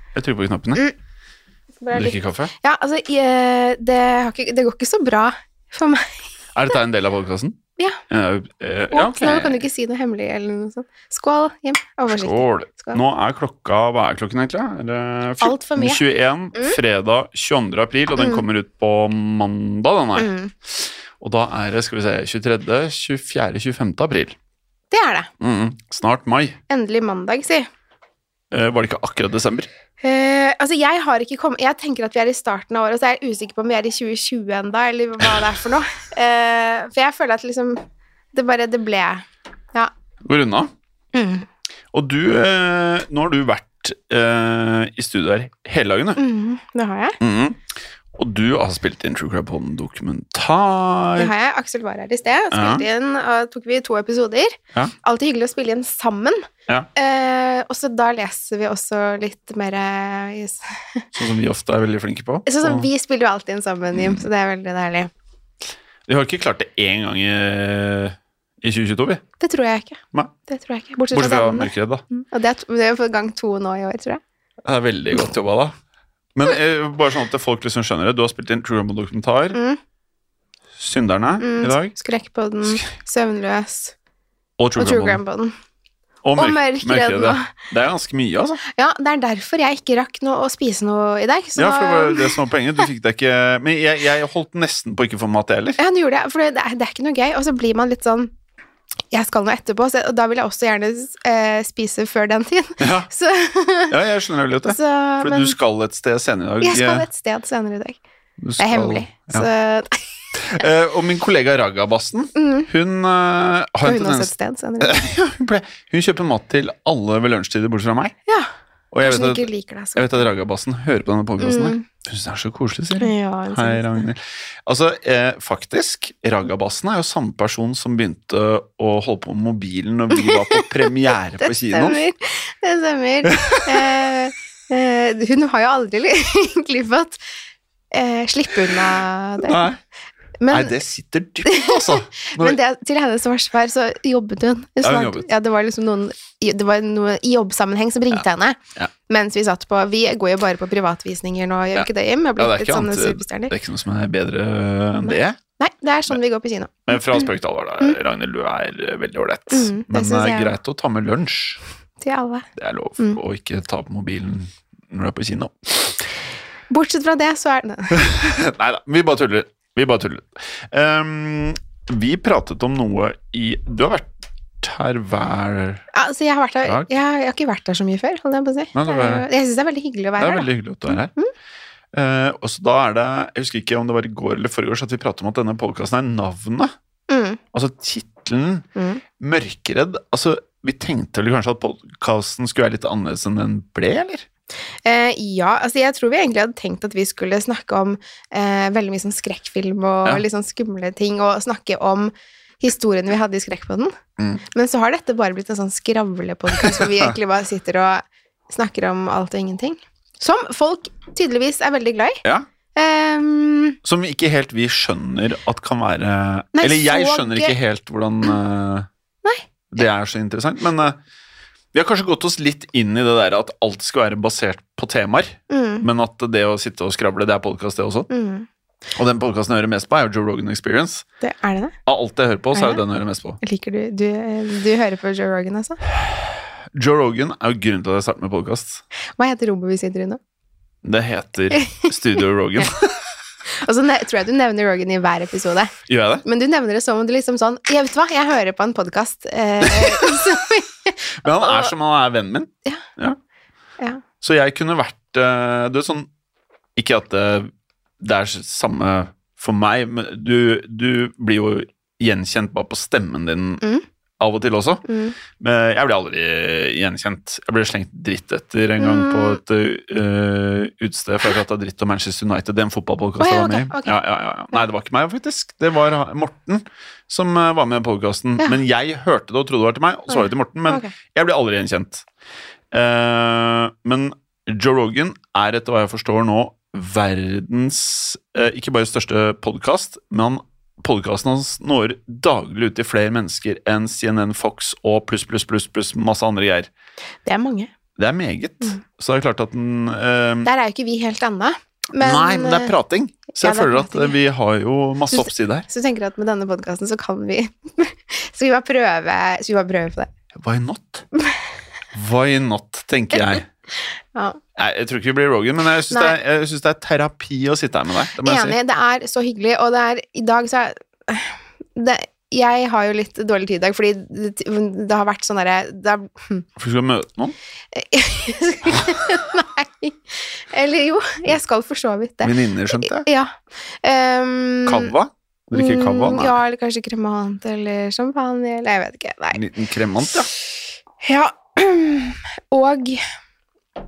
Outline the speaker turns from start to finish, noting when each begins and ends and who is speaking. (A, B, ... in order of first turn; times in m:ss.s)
0:00.2-0:00.8 A
0:01.8-0:06.2 B
0:01.9-0:02.5 A
0:06.6-0:07.6 A
0:08.1-0:09.6 A
0:08.9-0:13.0 B
0:12.2-0:24.4 A
0:15.4-0:16.0 B
0:18.2-0:18.4 B
0:20.2-0:20.5 B
0:24.9-0:25.3 B
0:25.4-0:26.6 A
0:26.7-0:27.7 B
0:28.5-0:29.7 A
0:30.0-0:37.8 B
0:38.3-0:39.9 B
0:40.2-0:40.7 A
0:41.1-0:41.5 B
0:41.9-0:46.2 A
0:46.2-0:47.2 B
0:47.2-0:47.6 A
0:48.2-0:51.3 A
0:51.2-1:01.1 B
0:52.5-0:52.8 A
1:01.1-1:02.9 A
1:02.5-1:05.1 B
1:04.0-1:04.2 A
1:06.1-1:09.2 A
1:09.4-1:14.2 B
1:11.1-1:12.0 A
1:14.6-1:15.8 A
1:16.4-1:19.6 A
1:19.5-1:19.8 B
1:20.8-1:21.9 A
1:21.4-1:24.0 B
1:24.6-1:25.2 A
1:24.8-1:25.6 B
1:26.2-1:28.6 A
1:26.4-1:27.5 B
1:28.7-1:32.4 B
1:31.6-1:35.8 A
1:35.8-1:38.3 B
1:39.1-1:43.9 B
1:42.8-1:43.1 A
1:43.9-1:47.1 A
1:44.7-1:45.6 B
1:46.6-1:48.0 B
1:48.4-1:49.5 A
1:48.6-1:50.6 B
1:50.4-1:58.2 A
1:52.4-1:52.7 B
1:53.8-1:55.0 B
1:58.9-2:12.0 A
1:59.0-2:00.3 B
2:01.4-2:01.8 B
2:03.0-2:04.0 B
2:10.1-2:10.7 B
2:11.4-2:17.2 B
2:13.2-2:14.0 A
2:17.9-2:19.6 B
2:19.4-2:19.8 A
2:20.4-2:20.8 B
2:20.5-2:22.6 A
2:21.4-2:33.5 B
2:24.8-2:25.3 A
2:31.7-2:35.4 A
2:35.0-2:37.3 B
2:36.9-2:41.6 A
2:39.5-2:40.5 B
2:42.0-2:42.5 B
2:42.6-2:46.0 A
2:46.7-2:48.4 B
2:47.9-2:54.1 A
2:54.6-2:55.8 A
2:55.9-3:01.3 B
2:58.7-2:59.3 A
3:00.2-3:01.1 A
3:01.9-3:06.7 A
3:07.1-3:07.4 B
3:07.5-3:08.7 A
3:08.8-3:09.0 B
3:09.2-3:14.3 A
3:14.8-3:23.9 B
3:24.5-3:32.2 B
3:26.6-3:27.1 A
3:32.8-3:33.8 B
3:33.8-3:38.9 A
3:36.6-3:37.6 B
3:39.7-3:41.0 A
3:41.7-3:48.1 A
3:45.5-3:45.9 B
3:48.1-3:48.5 B
3:49.0-3:51.0 A
3:51.2-3:51.8 B
3:51.9-3:53.4 A
3:52.5-3:52.8 B
3:53.4-3:55.8 B
3:55.9-3:58.8 A
3:59.2-4:00.2 B
4:00.8-4:03.1 A
4:01.5-4:01.9 B
4:03.5-4:11.7 B
4:05.9-4:06.2 A
4:09.6-4:10.3 A
4:11.2-4:13.2 A
4:14.2-4:16.1 A
4:16.8-4:23.6 A
4:24.2-4:24.8 A
4:24.8-4:25.2 B
4:25.4-4:42.0 A
4:28.8-4:29.4 B
4:33.2-4:34.0 B
4:40.1-4:40.9 B
4:42.7-4:56.7 A
4:57.2-4:57.7 B
4:58.0-5:00.5 A
5:00.4-5:02.7 B
5:02.0-5:05.7 A
5:03.4-5:04.2 B
5:05.1-5:10.1 B
5:10.3-5:11.1 A
5:11.9-5:13.5 A
5:13.1-5:14.4 B
5:14.6-5:18.6 A
5:15.9-5:16.2 B
5:18.2-5:26.5 B
5:26.6-5:27.4 A
5:27.7-5:34.9 B
5:32.2-5:33.1 A
5:34.7-5:36.4 A
5:35.5-5:39.4 B
5:39.3-5:40.3 A
5:41.0-5:43.0 B